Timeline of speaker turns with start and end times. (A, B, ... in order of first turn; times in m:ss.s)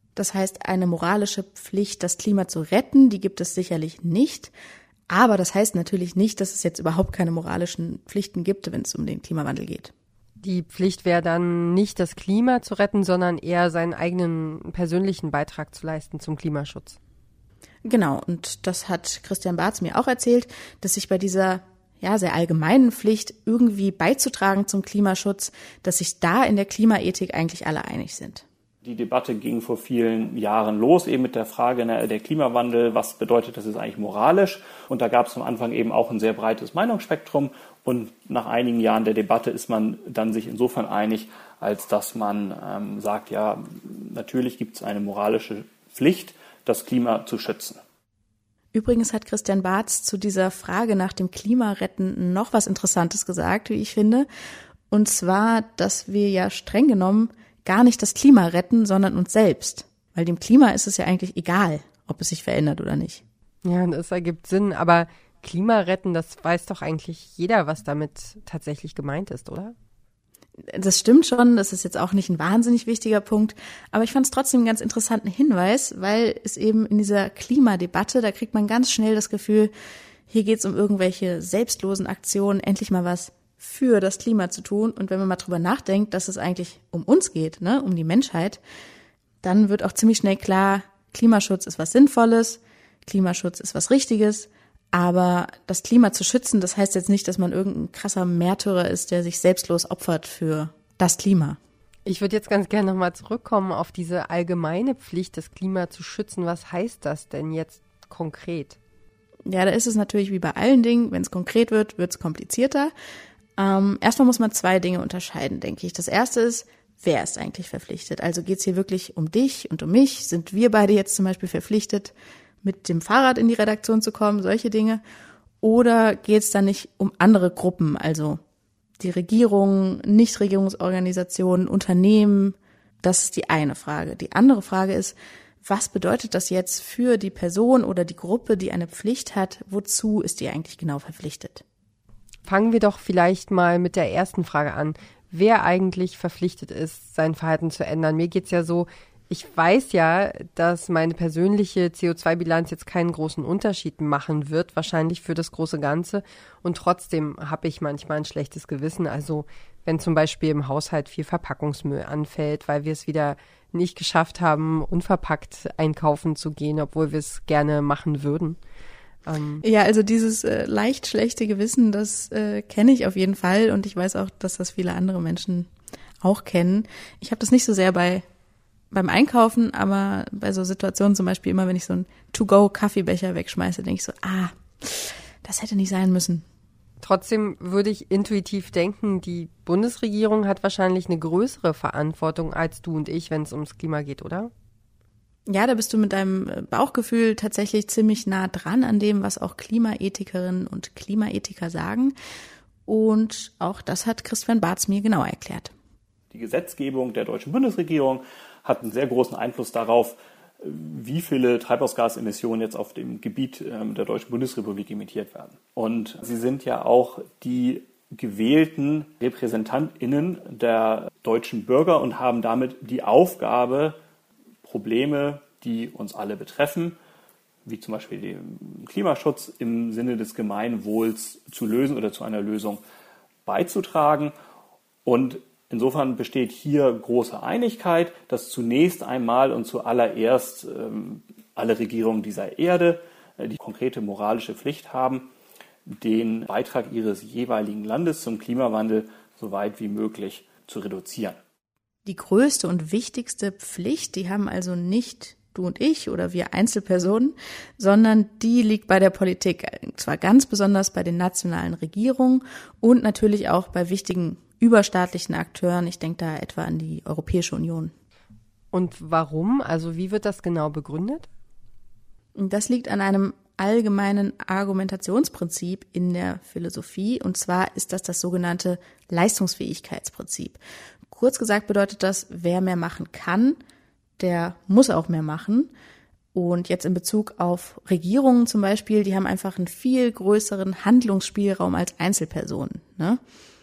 0:00.2-0:04.5 A
0:05.1-0:09.9 A
0:10.4-0:17.0 B
0:17.8-0:28.4 A
0:28.8-0:47.8 C
0:48.7-0:54.3 A
0:54.9-1:03.2 A
1:03.6-1:09.7 B
1:10.7-1:19.7 A
1:20.3-1:28.6 A
1:29.4-1:41.6 A
1:42.0-1:48.8 B
1:49.5-1:52.9 A
1:53.6-2:05.0 A
2:05.6-2:08.4 A
2:09.0-2:21.6 A
2:22.4-2:48.6 B
2:49.2-2:49.6 B
2:49.6-2:55.7 A
2:56.2-2:58.2 A
2:58.9-3:06.4 A
3:07.0-3:14.5 B
3:15.5-3:22.1 A
3:22.8-3:25.7 A
3:26.3-3:44.0 C
3:44.6-3:47.0 C
3:47.6-3:52.8 C
3:53.4-3:54.3 C
3:55.0-4:05.3 C
4:05.8-4:11.4 C
4:12.0-4:27.9 A
4:28.7-4:31.3 B
4:32.4-4:43.6 A
4:44.2-4:45.7 A
4:46.3-4:53.2 A